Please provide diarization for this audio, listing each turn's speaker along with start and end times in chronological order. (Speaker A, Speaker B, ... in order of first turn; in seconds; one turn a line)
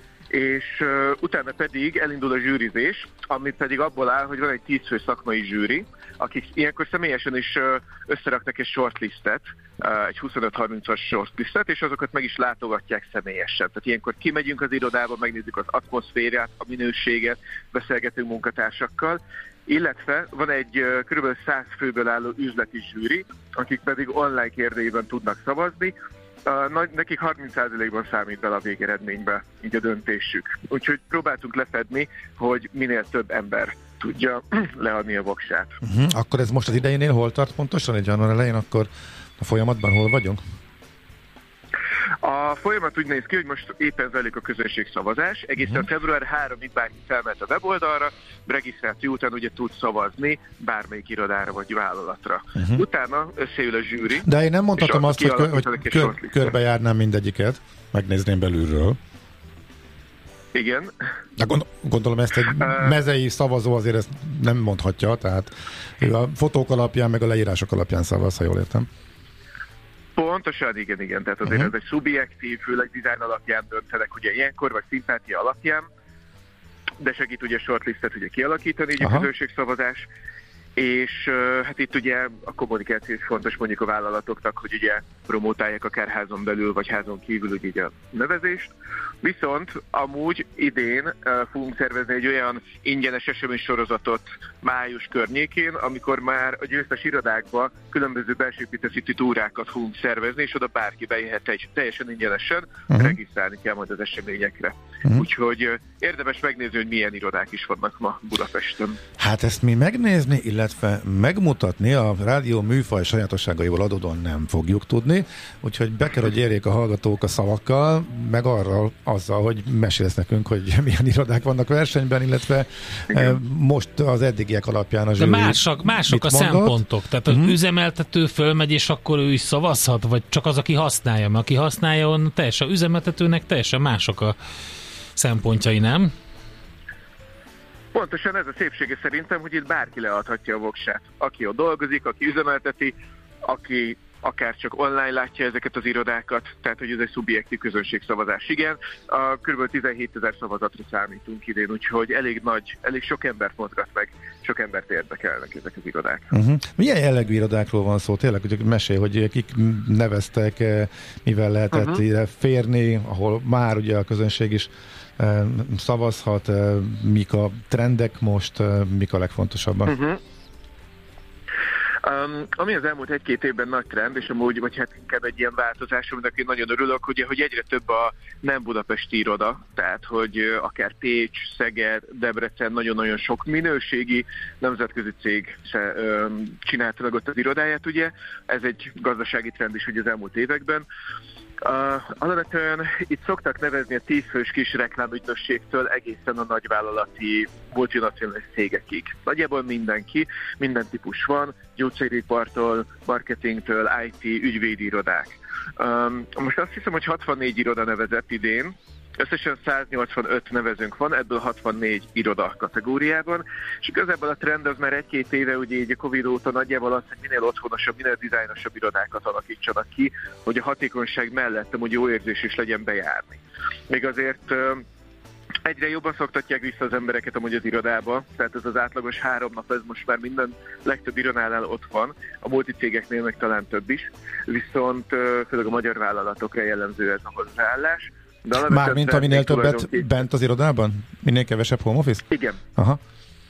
Speaker A: 0.3-25.9
Speaker A: 26.4-35.8
Speaker B: 35.8-40.4
Speaker A: 42.2-54.3
Speaker B: 52.6-52.9
Speaker B: 54.2-59.0
Speaker A: 54.8-56.5
Speaker A: 60.5-60.9
Speaker B: 61.4-68.9
Speaker A: 62.6-62.9
Speaker A: 70.2-75.9
Speaker A: 77.0-80.1
Speaker B: 79.0-79.3
Speaker A: 80.8-88.7
Speaker A: 89.2-109.0
Speaker B: 102.9-103.2
Speaker B: 109.2-127.6
Speaker C: 125.2-134.4
Speaker C: 135.2-136.1
Speaker A: 137.9-156.3
Speaker B: 156.3-169.9
Speaker A: 161.7-162.0
Speaker A: 169.9-170.2
Speaker A: 172.0-190.9
Speaker A: 191.6-224.8
Speaker A: 225.6-240.1
Speaker B: 238.6-243.0
Speaker A: 242.3-242.6